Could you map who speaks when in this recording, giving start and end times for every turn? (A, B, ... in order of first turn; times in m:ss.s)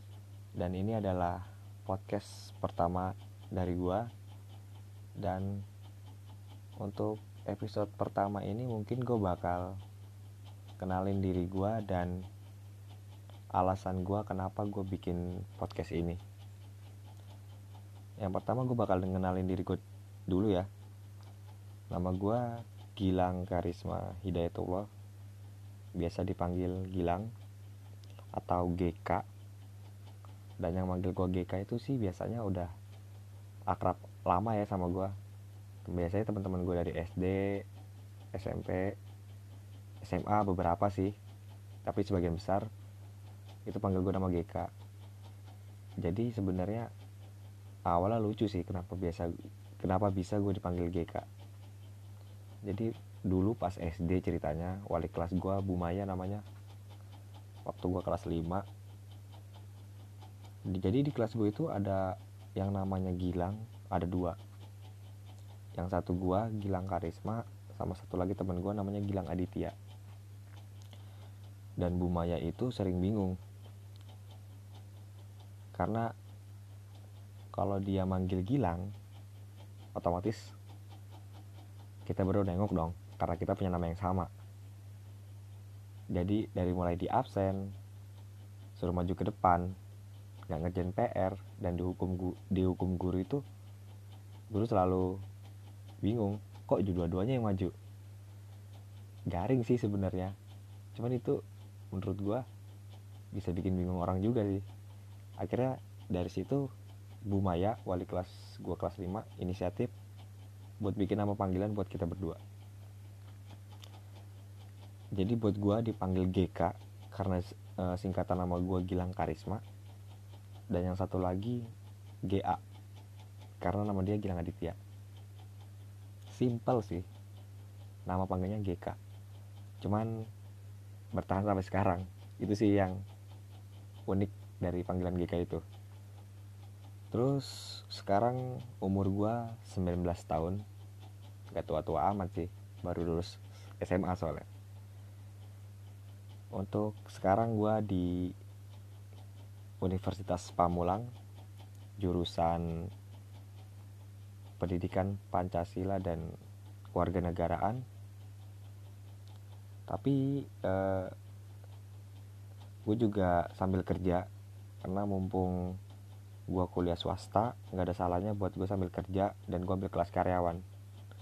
0:00.6-0:04.1 A
0:05.2-0:05.6 A
0:06.8-0:09.8 A
0:10.8-0:12.2 A
0:13.6-0:16.2 A
0:18.2-0:20.7 A
0:21.9-0:22.4 A
0:23.0-0:24.9 A
0:26.0-0:27.3 A
0:28.4-0:29.2 A
0:30.6-0:32.7 A
0:33.7-0:35.1 A
0:35.9-0:37.6 A
0:38.3-0:39.0 A
0:40.0-0:41.2 A
0:41.8-0:42.7 A
0:43.7-0:44.7 A
0:46.0-0:46.9 A
0:47.9-0:51.3 A
0:52.6-0:56.4 A
0:57.6-0:58.6 A
1:00.7-1:04.4 A
1:05.8-1:09.8 A
1:11.8-1:13.4 A
1:15.7-1:16.1 A
1:17.5-1:18.9 A
1:20.0-1:20.6 A
1:22.1-1:24.3 A
1:26.1-1:27.7 A
1:28.8-1:29.8 A
1:30.5-1:33.4 A
1:34.5-1:35.2 A
1:36.0-1:37.7 A
1:39.3-1:40.4 A
1:41.0-1:41.4 A
1:41.9-1:42.4 A
1:43.3-1:44.6 A
1:45.4-1:46.7 A
1:47.3-1:49.9 A
1:50.8-1:52.4 A
1:55.2-1:59.6 A
2:00.7-2:01.6 A
2:02.3-2:02.6 A
2:03.6-2:04.8 A
2:06.3-2:07.1 A
2:08.1-2:09.0 A
2:09.8-2:10.2 A
2:11.1-2:13.0 A
2:14.1-2:15.6 A
2:17.1-2:20.6 A
2:21.5-2:24.5 A
2:26.5-2:28.4 A
2:29.8-2:31.1 A
2:32.0-2:32.9 A
2:34.6-2:36.3 A
2:36.9-2:37.8 A
2:39.9-2:41.1 A
2:42.9-2:44.3 A
2:44.8-2:45.8 A
2:46.5-2:50.6 A